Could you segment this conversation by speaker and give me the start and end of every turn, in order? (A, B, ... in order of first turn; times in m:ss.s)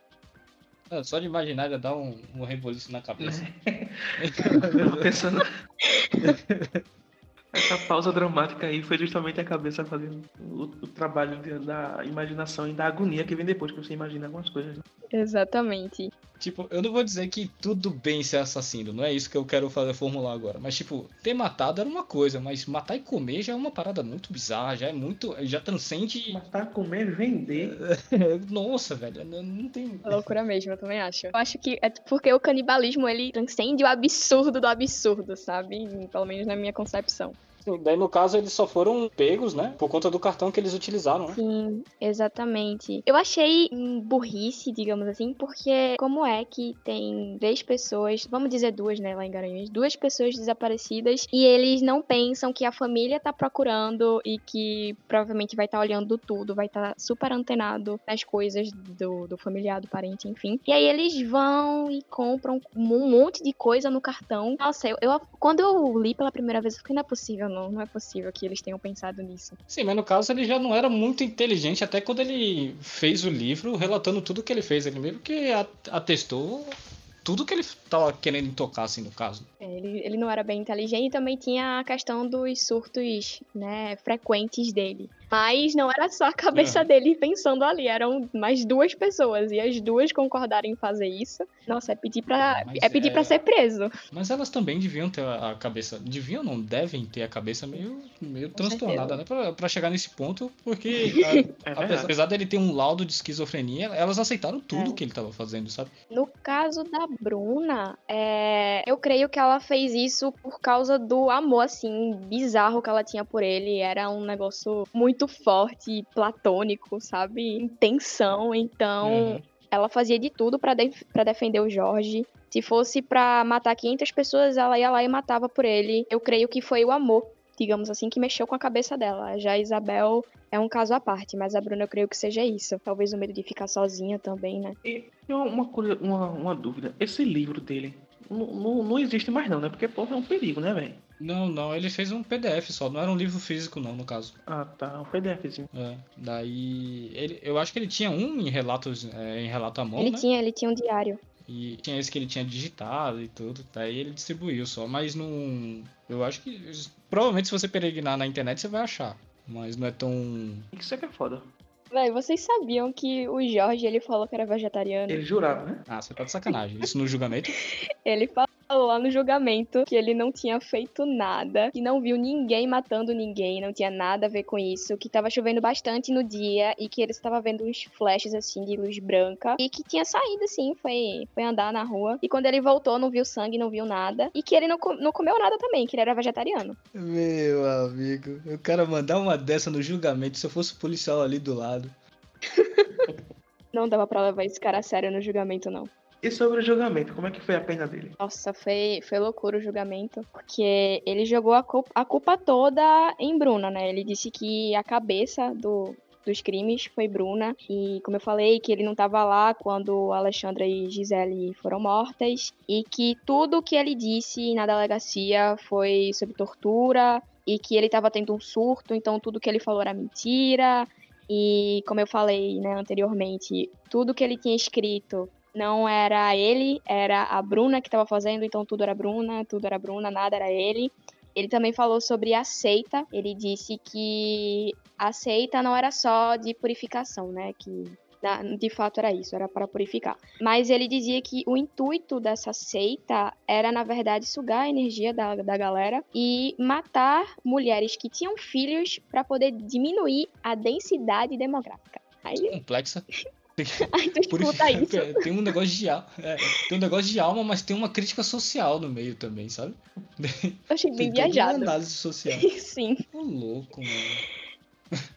0:00.9-0:03.4 A
0:03.2-0:05.5 B
0:04.2-0:05.1 A
0:06.1-0:06.4 C
0:06.2-0:06.8 A
0:07.5-0:14.8 B
0:15.1-0:16.1 C
0:16.4-0:26.4 A
0:26.3-0:27.8 B
0:27.6-0:30.2 A
0:30.0-0:37.4 C
0:37.6-0:41.4 A
0:41.3-1:09.6 C
1:09.7-1:16.7 A
1:17.2-1:19.5 A
1:19.6-1:33.9 C
1:26.5-1:26.9 A
1:32.4-1:33.4 A
1:34.1-1:45.9 A
1:38.6-1:39.2 C
1:41.7-1:42.1 B
1:44.7-1:45.0 C
1:46.1-2:14.8 C
1:59.0-1:59.4 A
2:14.8-2:21.0 B
2:21.2-2:24.4 A
2:24.5-2:25.7 B
2:25.7-2:30.2 A
2:30.0-2:31.2 C
2:31.4-2:40.7 A
2:40.7-2:41.5 B
2:41.9-2:45.2 C
2:45.1-2:45.8 B
2:45.9-2:47.6 A
2:48.0-3:06.8 C
3:06.9-3:12.0 A
3:12.5-3:13.1 C
3:13.7-3:15.9 C
3:16.2-3:18.2 B
3:18.2-4:12.6 C
4:12.5-4:13.0 A
4:13.6-4:22.5 A
4:13.9-4:15.2 C
4:20.7-4:21.7 C
4:22.3-4:23.0 C
4:23.1-4:24.2 A